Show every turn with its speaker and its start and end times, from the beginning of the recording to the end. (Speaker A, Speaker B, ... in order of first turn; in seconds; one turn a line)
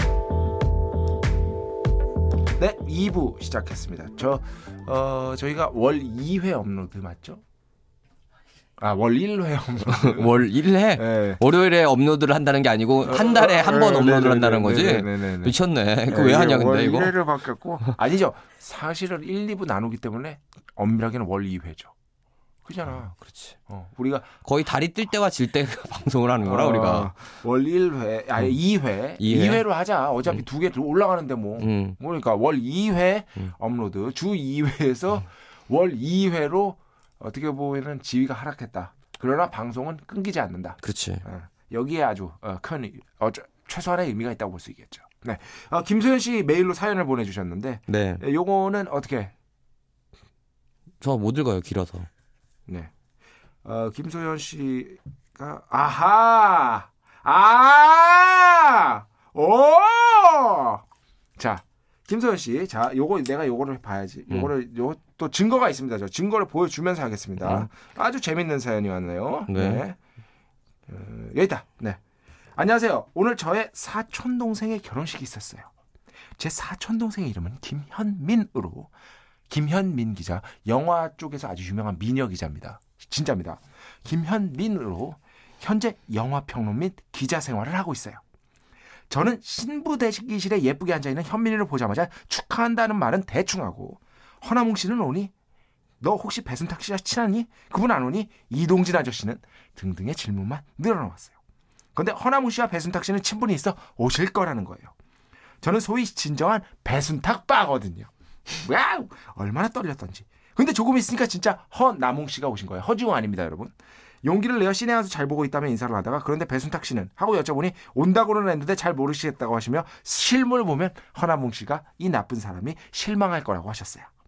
Speaker A: 2.6-7.4
Speaker A: 8.8-11.4
Speaker B: 9.8-17.1
Speaker A: 13.0-21.9
Speaker A: 22.6-24.3
Speaker B: 24.4-27.1
Speaker A: 26.4-49.3
Speaker B: 29.2-29.6
Speaker B: 31.6-32.0
Speaker B: 40.8-41.2
Speaker B: 47.9-48.2
Speaker B: 51.0-52.1
Speaker A: 53.6-60.8
Speaker A: 61.4-70.0
Speaker B: 67.4-67.7
Speaker B: 69.5-69.8
Speaker A: 70.9-72.0
Speaker A: 72.6-75.7
Speaker A: 76.4-78.9
Speaker A: 79.5-88.2
Speaker A: 89.1-95.3
Speaker A: 96.0-101.4
Speaker A: 102.0-104.9
Speaker A: 105.6-113.7
Speaker A: 114.2-124.1